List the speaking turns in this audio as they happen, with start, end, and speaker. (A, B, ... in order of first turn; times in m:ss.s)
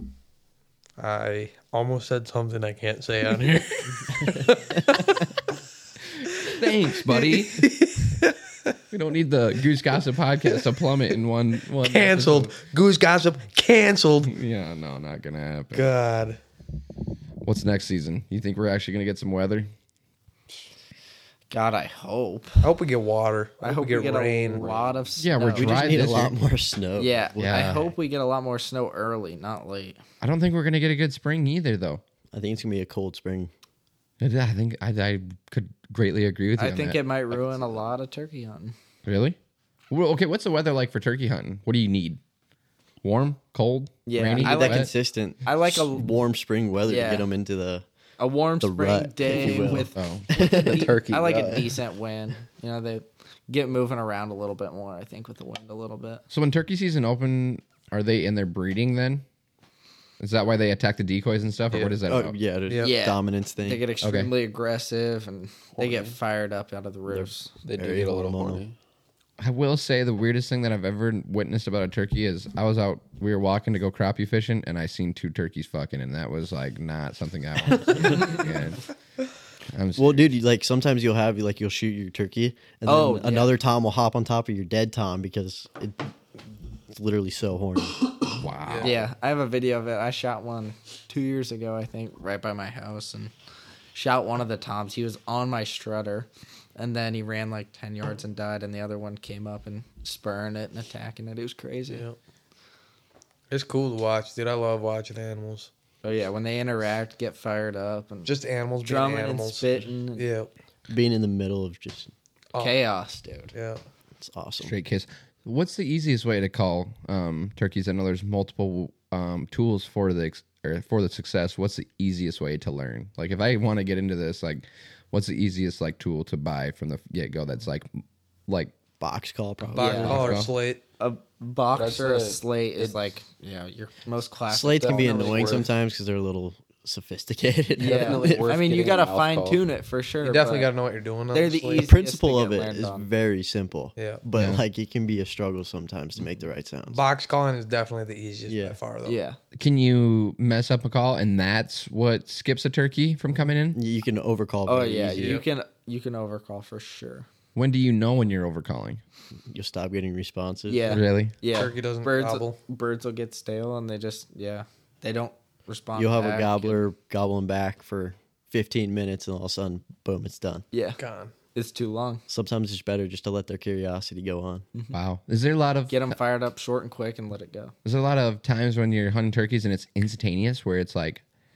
0:01.0-0:05.2 A
0:06.2-0:07.9 B
0:07.1-0:08.3 A
0:08.9-0:12.5 B
0:11.8-0:14.3 A
0:14.2-0:15.9 B
0:15.7-0:16.4 A
0:17.4-0:19.7 B
0:21.5-0:22.7 C
0:22.6-0:24.7 A
0:23.6-0:26.0 C
0:24.6-0:24.9 D
0:25.2-0:26.4 B
0:25.5-0:27.5 E
0:27.0-0:30.0 C
0:27.4-0:27.9 B
0:30.2-0:32.0 B
0:32.3-0:33.5 E
0:34.2-0:37.6 B
0:36.6-0:38.7 C
0:39.0-0:39.4 B
0:39.9-0:42.2 B
0:43.0-0:44.9 B
0:44.0-0:46.1 C
0:44.4-0:47.8 E
0:46.8-0:47.3 C
0:48.2-0:56.2 C
0:48.6-0:51.0 E
0:50.0-0:50.3 B
0:50.3-0:51.7 D
0:56.3-0:59.2 B
1:00.2-1:02.4 B
1:01.7-1:02.0 A
1:02.1-1:03.8 E
1:02.8-1:07.5 C
1:04.0-1:04.3 B
1:05.8-1:06.2 D
1:07.6-1:08.8 D
1:07.7-1:08.6 E
1:09.4-1:18.8 B
1:19.7-1:20.3 B
1:20.0-1:26.1 E
1:22.8-1:23.6 C
1:26.9-1:28.1 E
1:28.4-1:29.0 B
1:28.7-1:28.9 A
1:28.8-1:33.3 C
1:33.9-1:42.0 C
1:41.9-1:42.2 A
1:43.5-1:45.7 A
1:46.0-1:48.3 C
1:48.2-1:50.5 A
1:48.8-1:50.2 C
1:50.9-1:52.1 E
1:52.6-1:53.5 C
1:53.5-1:53.8 A
1:54.2-1:54.7 E
1:54.6-2:08.7 B
2:09.0-2:10.5 E
2:09.7-2:10.8 A
2:09.8-2:10.2 C
2:10.0-2:10.5 B
2:11.0-2:15.7 C
2:11.7-2:13.0 D
2:14.5-2:18.5 E
2:14.7-2:15.7 D
2:17.8-2:20.7 C
2:17.8-2:19.6 D
2:20.2-2:21.9 A
2:21.3-2:23.0 C
2:21.8-2:27.0 E
2:24.0-2:24.2 A
2:24.4-2:24.6 B
2:26.9-2:29.2 A
2:28.5-2:28.8 E
2:29.0-2:29.4 C
2:29.6-2:33.8 B
2:33.7-2:35.4 E
2:34.6-2:37.3 C
2:35.2-2:35.4 A
2:37.5-2:39.0 B
2:39.5-2:41.0 E
2:40.7-2:46.8 C
2:40.9-2:41.3 B
2:41.5-2:42.6 A
2:46.0-2:50.6 E
2:50.7-2:51.0 C
2:51.0-2:51.3 A
2:51.5-2:52.2 C
2:52.3-2:54.6 E
2:54.9-2:56.2 B
2:55.9-2:57.7 C
2:57.8-3:01.2 B